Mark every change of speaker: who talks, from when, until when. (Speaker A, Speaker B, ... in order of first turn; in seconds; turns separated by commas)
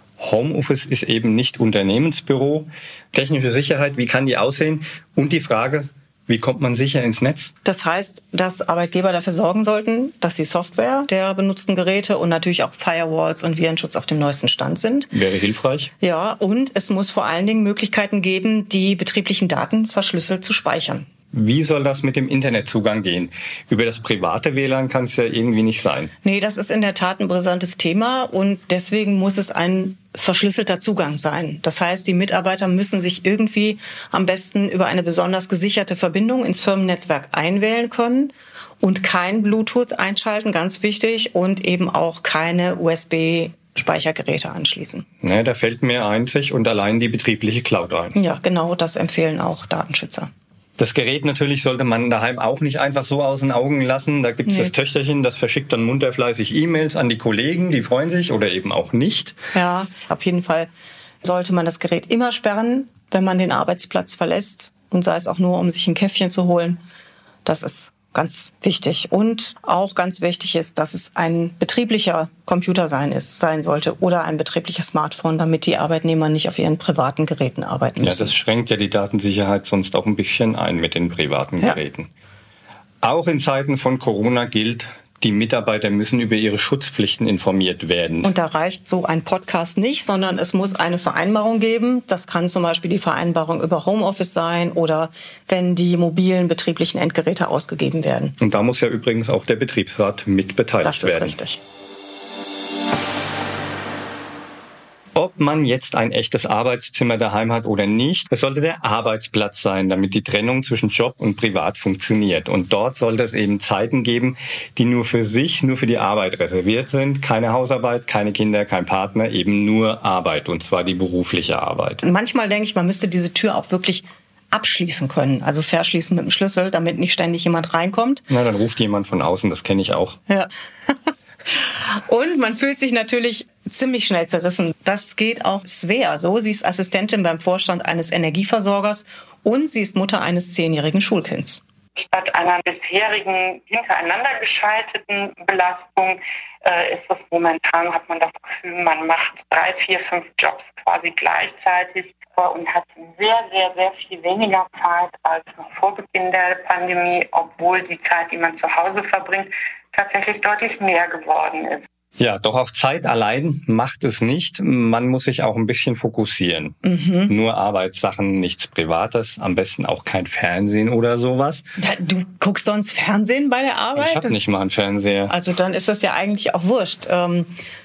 Speaker A: 0.2-7.5, Speaker B: 7.6-15.1, Speaker A: 15.1-15.9, Speaker B: 16.0-21.1, Speaker A: 21.3-26.1, Speaker B: 26.2-45.0, Speaker A: 45.2-48.1, Speaker B: 48.1-50.3, Speaker A: 50.8-59.4, Speaker B: 54.5-54.7, Speaker B: 59.5-60.7, Speaker B: 61.2-66.8, Speaker B: 67.4-78.3, Speaker A: 78.0-82.1, Speaker A: 83.0-88.3, Speaker B: 88.2-98.3, Speaker A: 98.4-101.4, Speaker B: 100.8-101.6, Speaker A: 105.1-122.0, Speaker B: 122.0-128.2, Speaker A: 128.3-130.2, Speaker B: 130.3-130.9, Speaker B: 131.6-141.6, Speaker C: 142.0-161.8, Speaker A: 162.2-171.7, Speaker B: 166.8-167.3, Speaker B: 171.8-174.4, Speaker A: 174.0-175.3, Speaker B: 175.3-177.5